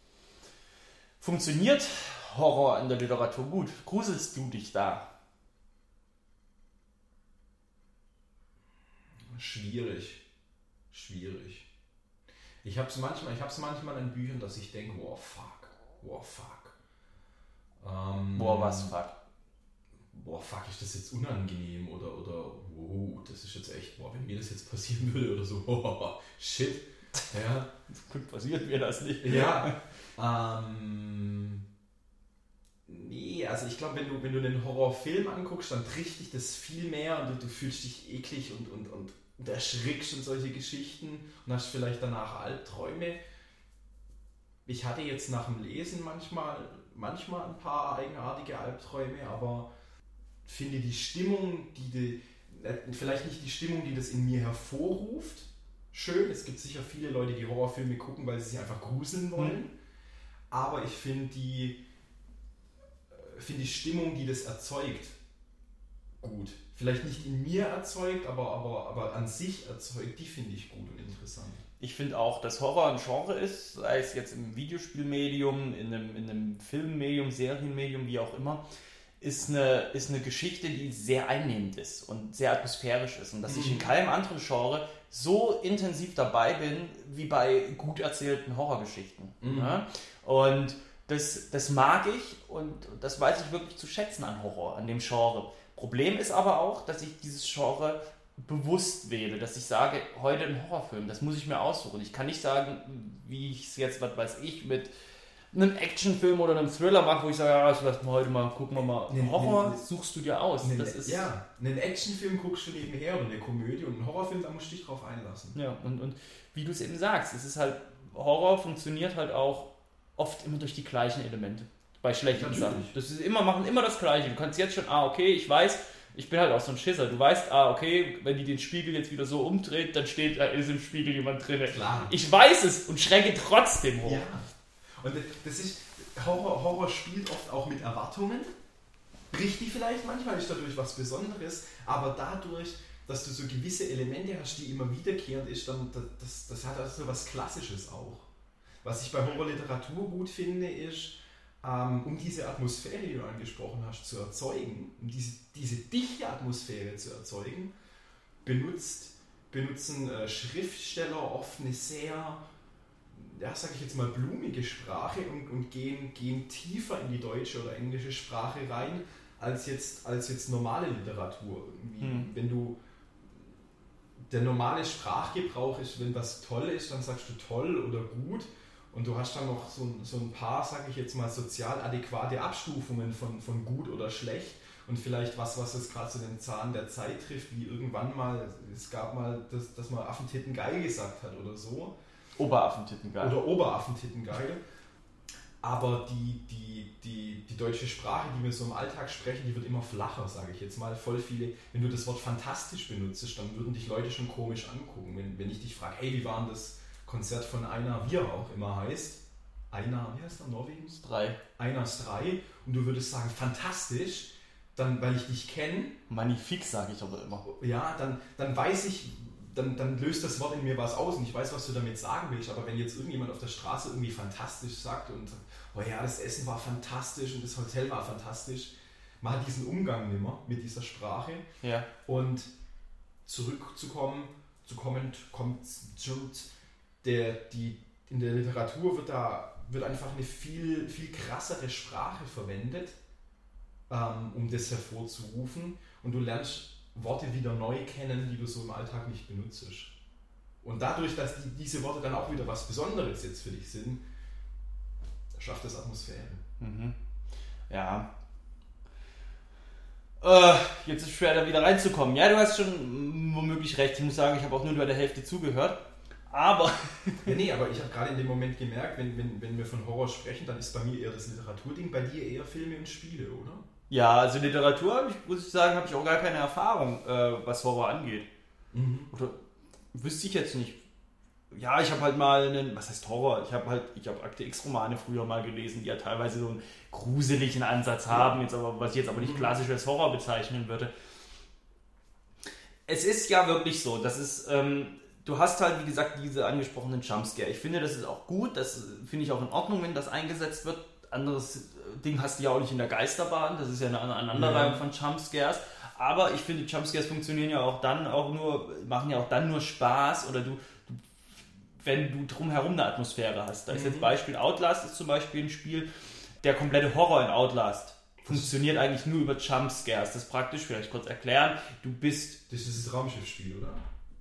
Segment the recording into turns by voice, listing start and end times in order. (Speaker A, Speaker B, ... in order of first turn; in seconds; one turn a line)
Speaker A: 1.2-5.1
Speaker B: 9.3-10.2
Speaker B: 10.9-11.7
Speaker B: 12.6-16.8
Speaker B: 17.8-18.9
Speaker A: 18.3-19.1
Speaker B: 20.1-27.7
Speaker A: 27.9-29.8
Speaker B: 29.2-31.6
Speaker B: 32.9-43.2
Speaker B: 44.6-49.7
Speaker B: 50.4-59.7
Speaker B: 60.5-61.8
Speaker B: 63.1-65.2
Speaker B: 66.2-71.6
Speaker A: 71.8-78.6
Speaker A: 79.2-104.9
Speaker B: 83.5-83.9
Speaker B: 89.4-89.8
Speaker A: 105.5-111.3
Speaker B: 109.1-109.8
Speaker B: 110.6-115.5
Speaker A: 115.5-134.2
Speaker B: 122.3-122.9
Speaker B: 131.7-132.2
Speaker B: 134.0-138.5
Speaker B: 139.3-148.3
Speaker B: 148.8-157.7
Speaker B: 158.4-162.4
Speaker B: 163.1-172.8
Speaker A: 172.0-172.3
Speaker B: 174.3-191.9
Speaker A: 192.4-193.4
Speaker B: 193.2-194.6
Speaker B: 195.6-211.0
Speaker A: 211.0-211.4
Speaker B: 211.6-215.9
Speaker A: 216.1-217.4
Speaker B: 217.4-231.4
Speaker A: 231.6-231.9
Speaker B: 232.1-232.5
Speaker B: 233.2-236.5
Speaker B: 237.0-243.0
Speaker B: 243.9-249.9
Speaker B: 250.6-254.0
Speaker B: 255.3-256.4
Speaker A: 256.6-256.9
Speaker A: 257.7-258.1
Speaker A: 260.2-267.3
Speaker B: 267.2-273.6
Speaker A: 273.9-278.3
Speaker B: 278.7-279.1
Speaker A: 279.1-279.4
Speaker A: 279.9-280.8
Speaker A: 281.5-290.9
Speaker B: 289.2-289.5
Speaker A: 292.9-311.0
Speaker B: 304.3-304.8
Speaker A: 311.8-315.9
Speaker B: 313.7-314.1
Speaker A: 316.4-322.4
Speaker B: 318.3-318.5
Speaker B: 322.5-323.8